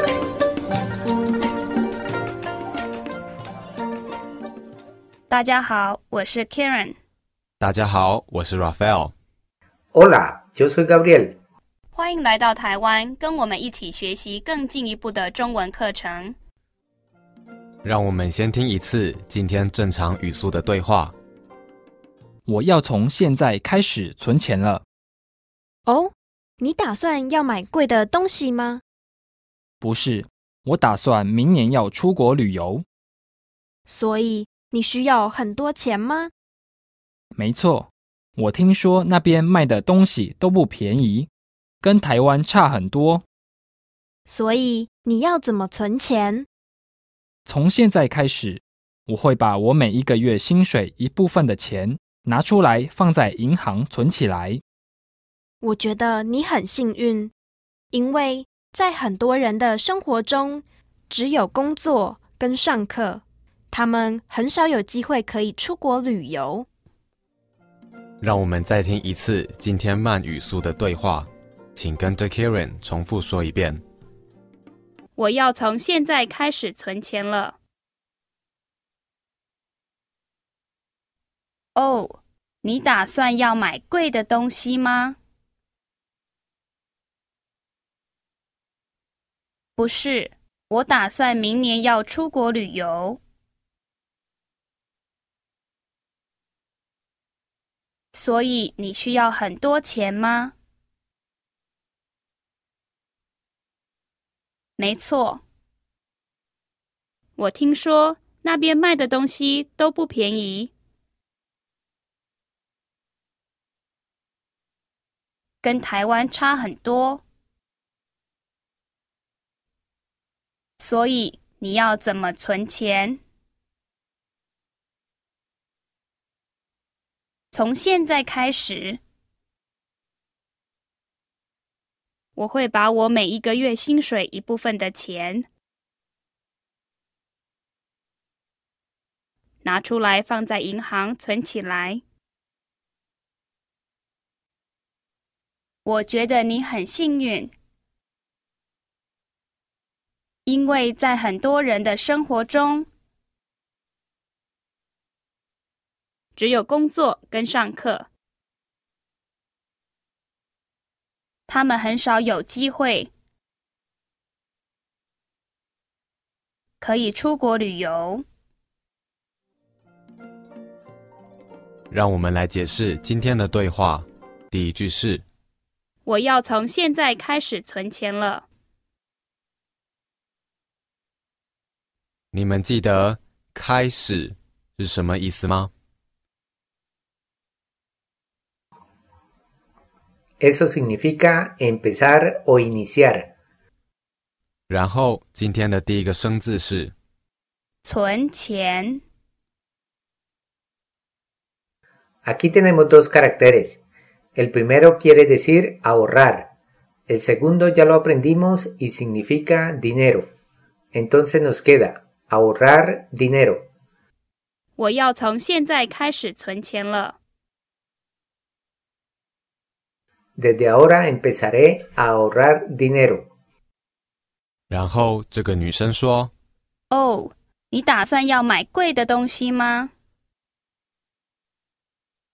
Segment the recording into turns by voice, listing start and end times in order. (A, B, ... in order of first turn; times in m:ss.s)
0:05.3-0:07.0 A
0:07.6-0:09.1 B
0:09.9-0:11.4 C
0:11.9-0:16.4 A
0:17.8-0:21.1 B
0:22.5-0:24.8 D
0:25.9-0:28.8 E
0:29.8-0:32.8 D
0:33.9-0:36.3 E
0:37.4-0:41.3 D
0:41.8-0:43.2 D
0:44.3-0:46.5 E
0:47.5-0:54.6 D
0:55.6-0:57.3 E
0:57.9-1:06.7 E
1:08.2-1:13.8 B
1:15.2-1:17.6 A
1:21.8-1:25.2 A
1:29.8-1:33.2 A
1:38.1-1:40.5 A
1:44.8-1:45.4 A
1:47.4-1:50.7 A
1:55.6-1:57.2 A
2:00.8-2:03.2 A
2:07.5-2:09.0 A
2:12.4-2:15.5 A
2:19.6-2:22.0 A
2:25.8-2:27.5 A
2:30.4-2:32.9 A
2:36.4-2:38.1 A
2:41.5-2:43.1 A
2:46.8-2:48.2 A
2:51.9-2:55.2 B
2:56.0-2:58.4 A
3:02.3-3:05.7 B
3:10.4-3:13.3 C
3:14.7-3:16.9 B
3:17.8-3:19.0 A
3:22.2-3:23.8 C
3:24.4-3:26.5 C
3:27.1-3:30.3 C
3:30.9-3:33.7 C
3:34.8-3:37.2 A
3:40.4-3:43.3 C
3:44.7-3:46.3 B
3:46.9-3:49.9 A